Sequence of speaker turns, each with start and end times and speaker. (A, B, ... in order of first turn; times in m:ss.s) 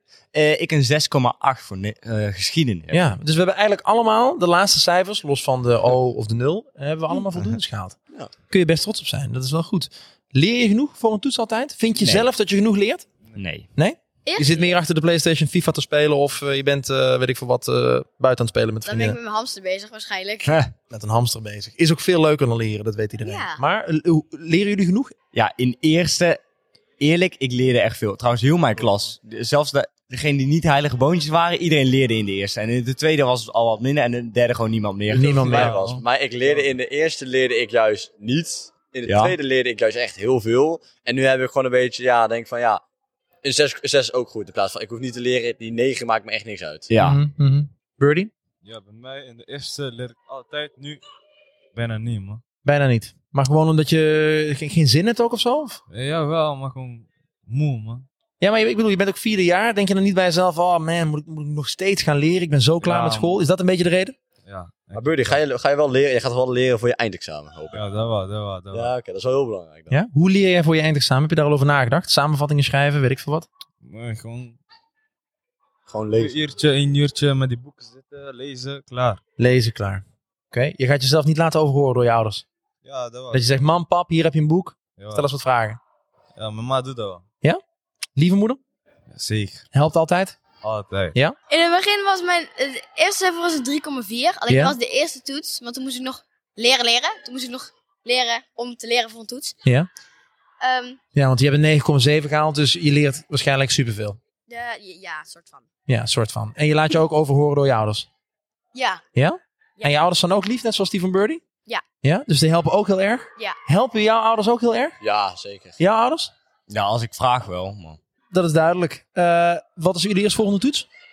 0:00.3-0:03.2 A
0:02.9-0:08.0 B
0:08.5-0:13.0 B
0:12.0-0:12.3 A
0:13.4-0:13.7 A
0:13.8-0:19.2 B
0:14.2-0:14.7 C
0:18.8-0:20.6 C
0:20.4-0:20.7 A
0:20.9-0:25.1 B
0:23.2-0:23.6 C
0:25.3-0:26.4 A
0:27.0-0:35.6 A
0:35.1-0:35.7 B
0:35.1-0:42.8 D
0:35.5-0:36.0 E
0:39.1-0:39.4 A
0:43.4-0:46.9 D
0:46.9-0:47.2 A
0:47.0-0:48.3 B
0:48.6-0:51.0 E
0:51.7-0:52.4 E
0:52.6-0:55.8 B
0:55.9-0:58.0 E
0:58.4-1:04.1 B
1:02.8-1:03.4 E
1:04.4-1:05.4 E
1:04.9-1:07.8 D
1:07.7-1:08.9 E
1:08.7-1:09.9 D
1:09.9-1:13.5 B
1:13.8-1:14.6 E
1:15.9-1:16.4 D
1:16.1-1:19.2 E
1:19.4-1:22.4 B
1:22.8-1:23.5 E
1:23.3-1:25.8 B
1:25.0-1:25.3 E
1:26.3-1:27.2 E
1:28.2-1:28.6 B
1:29.1-1:29.7 E
1:29.7-1:30.4 B
1:30.6-1:31.2 E
1:31.5-1:39.6 C
1:34.5-1:34.8 B
1:40.6-1:41.0 C
1:41.1-1:44.2 B
1:44.5-1:45.6 C
1:45.9-1:48.1 B
1:48.7-1:49.0 C
1:49.1-1:51.4 B
1:52.0-1:55.0 B
1:55.0-1:55.8 D
1:55.8-1:56.3 B
1:56.7-1:58.0 A
1:58.3-2:00.9 B